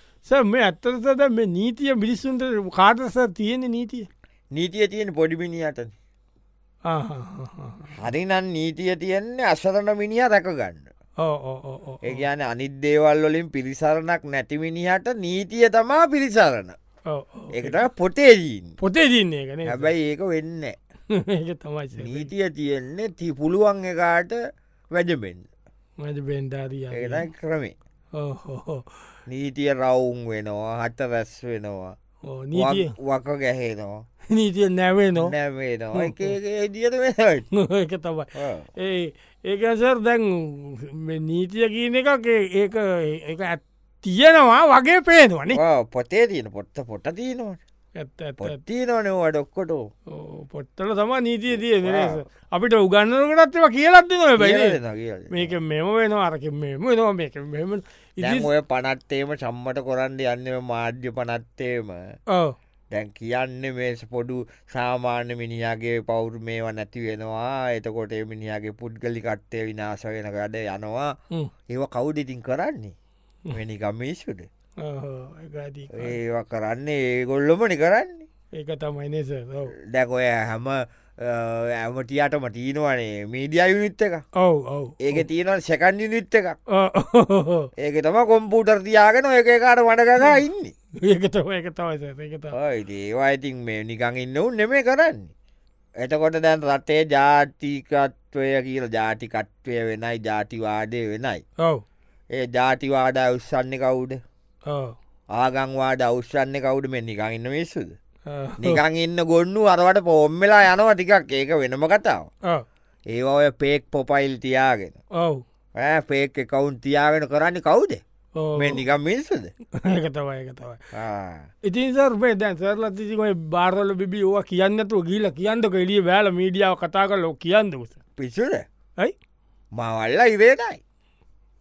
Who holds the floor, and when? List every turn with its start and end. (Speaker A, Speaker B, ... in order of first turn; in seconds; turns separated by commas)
Speaker A: 0.2-4.1, Speaker B: 4.5-5.9, Speaker A: 6.9-7.9, Speaker B: 7.9-10.9, Speaker A: 11.2-12.2, Speaker B: 12.0-16.8, Speaker A: 17.1-17.8, Speaker B: 17.5-18.8, Speaker A: 18.8-19.9, Speaker B: 19.6-20.8, Speaker A: 21.1-22.3, Speaker B: 22.0-24.4, Speaker B: 24.9-25.5, Speaker A: 26.0-27.3, Speaker B: 26.9-27.7, Speaker A: 28.1-28.9, Speaker B: 29.3-31.9, Speaker A: 32.2-32.9, Speaker B: 32.5-34.0, Speaker A: 34.3-35.3, Speaker B: 35.1-37.5, Speaker A: 35.9-36.3, Speaker A: 37.5-45.6, Speaker B: 38.4-38.6, Speaker B: 45.5-47.6, Speaker A: 48.0-48.6, Speaker B: 48.4-49.9, Speaker A: 50.1-54.8, Speaker B: 51.5-52.2, Speaker B: 54.4-55.5, Speaker A: 55.3-58.5, Speaker B: 58.2-62.0, Speaker B: 62.9-71.1, Speaker B: 71.7-72.9, Speaker B: 73.5-74.5, Speaker A: 74.8-76.2, Speaker B: 75.9-78.2, Speaker A: 78.5-79.7, Speaker B: 79.8-84.2, Speaker A: 84.4-85.2, Speaker B: 85.0-86.6, Speaker A: 86.7-87.7, Speaker B: 87.8-90.7, Speaker A: 91.0-92.5, Speaker B: 92.5-95.3, Speaker B: 96.0-101.4, Speaker B: 102.3-104.2, Speaker A: 104.7-104.9, Speaker B: 105.3-107.9, Speaker A: 108.3-108.8, Speaker B: 108.6-112.3, Speaker B: 113.1-115.0, Speaker A: 115.2-115.4, Speaker B: 115.8-118.0, Speaker A: 118.4-118.8, Speaker B: 118.6-119.5, Speaker A: 119.7-120.8, Speaker B: 120.9-121.5, Speaker A: 121.6-128.0, Speaker B: 128.2-128.6, Speaker B: 129.7-130.8